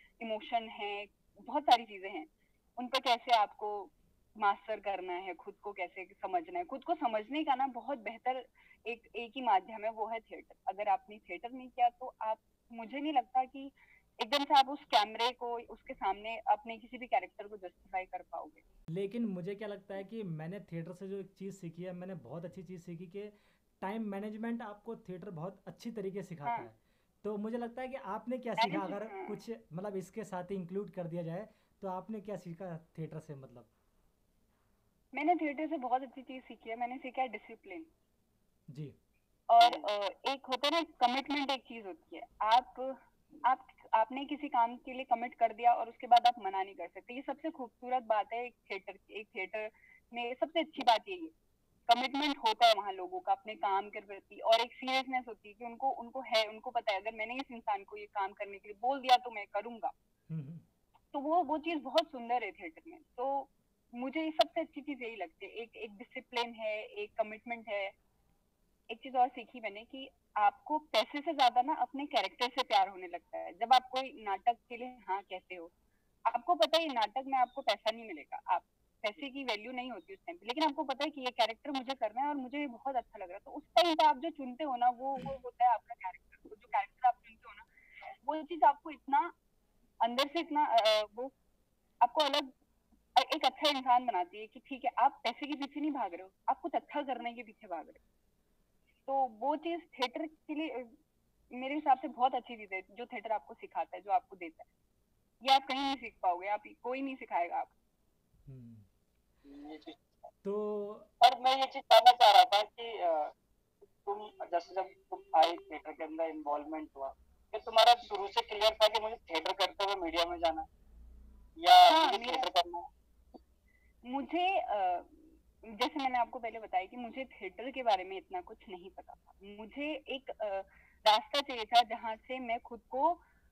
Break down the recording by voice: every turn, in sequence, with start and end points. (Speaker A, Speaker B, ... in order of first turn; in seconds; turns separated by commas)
Speaker A: 0.2-18.6, Speaker B: 18.9-33.7, Speaker A: 28.6-29.4, Speaker A: 35.1-37.9, Speaker B: 38.7-39.0, Speaker A: 39.5-51.3, Speaker C: 39.6-39.9, Speaker A: 51.9-59.9, Speaker B: 60.3-60.6, Speaker A: 61.1-68.0, Speaker A: 68.9-75.7, Speaker A: 76.2-87.7, Speaker A: 88.2-89.3, Speaker A: 90.0-91.3, Speaker A: 92.0-92.5, Speaker A: 93.2-98.0, Speaker A: 99.1-101.0, Speaker A: 101.5-104.7, Speaker A: 105.4-107.7, Speaker B: 108.5-108.9, Speaker C: 109.5-110.3, Speaker B: 110.4-111.1, Speaker C: 111.2-113.3, Speaker C: 114.0-120.7, Speaker C: 121.6-122.9, Speaker A: 121.9-122.5, Speaker A: 124.0-133.2